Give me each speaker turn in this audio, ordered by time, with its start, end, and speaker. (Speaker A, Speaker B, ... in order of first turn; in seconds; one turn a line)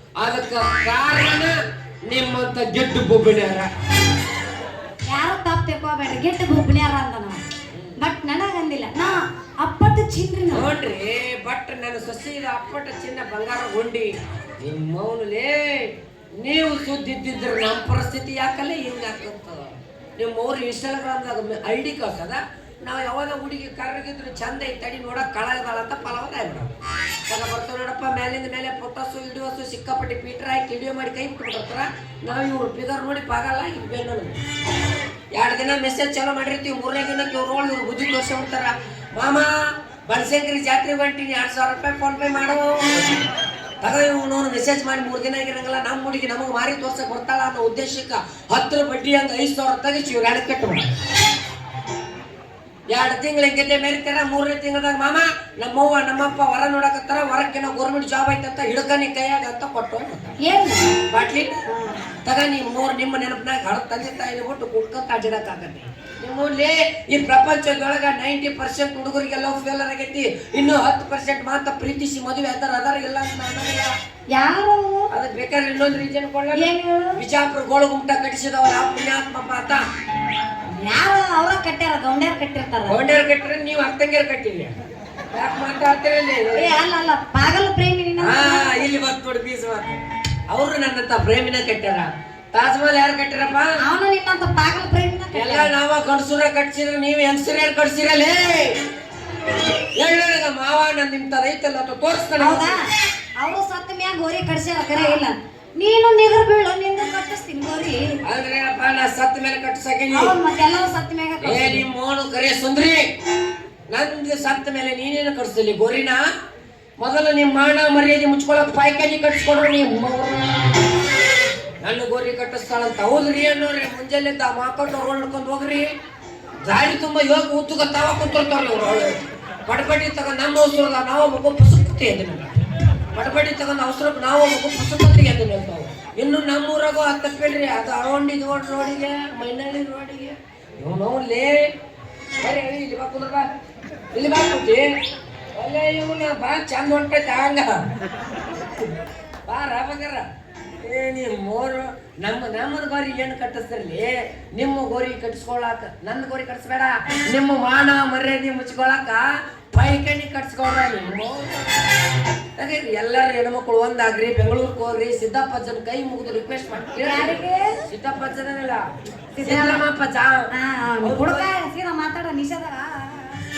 Speaker A: 0.2-1.5
Speaker A: 2.1-3.7
Speaker B: 5.1-7.4
Speaker B: 8.0-10.7
Speaker A: 10.5-26.7
Speaker A: 27.3-34.4
Speaker A: 35.3-39.5
Speaker A: 40.1-43.2
Speaker A: 43.8-50.9
Speaker A: 52.9-60.4
Speaker B: 60.4-60.9
Speaker A: 61.1-61.5
Speaker B: 61.7-62.1
Speaker A: 62.2-73.9
Speaker B: 74.3-75.1
Speaker A: 75.1-79.8
Speaker B: 76.5-77.2
Speaker B: 80.7-83.0
Speaker A: 82.9-84.7
Speaker A: 85.3-86.7
Speaker B: 86.5-88.9
Speaker A: 88.2-93.7
Speaker B: 93.8-95.7
Speaker A: 95.3-98.8
Speaker A: 100.0-102.8
Speaker B: 102.4-108.1
Speaker A: 108.2-110.3
Speaker B: 110.1-111.8
Speaker A: 111.4-113.0
Speaker A: 113.9-116.2
Speaker A: 117.0-120.8
Speaker A: 121.8-125.9
Speaker A: 126.6-132.5
Speaker A: 133.1-141.7
Speaker A: 142.4-143.4
Speaker A: 144.1-144.9
Speaker A: 145.5-147.7
Speaker A: 149.5-150.3
Speaker A: 150.8-161.7
Speaker A: 162.6-168.8
Speaker B: 166.9-167.8
Speaker B: 169.3-169.8
Speaker A: 169.4-170.5
Speaker B: 170.5-173.4
Speaker A: 171.0-171.5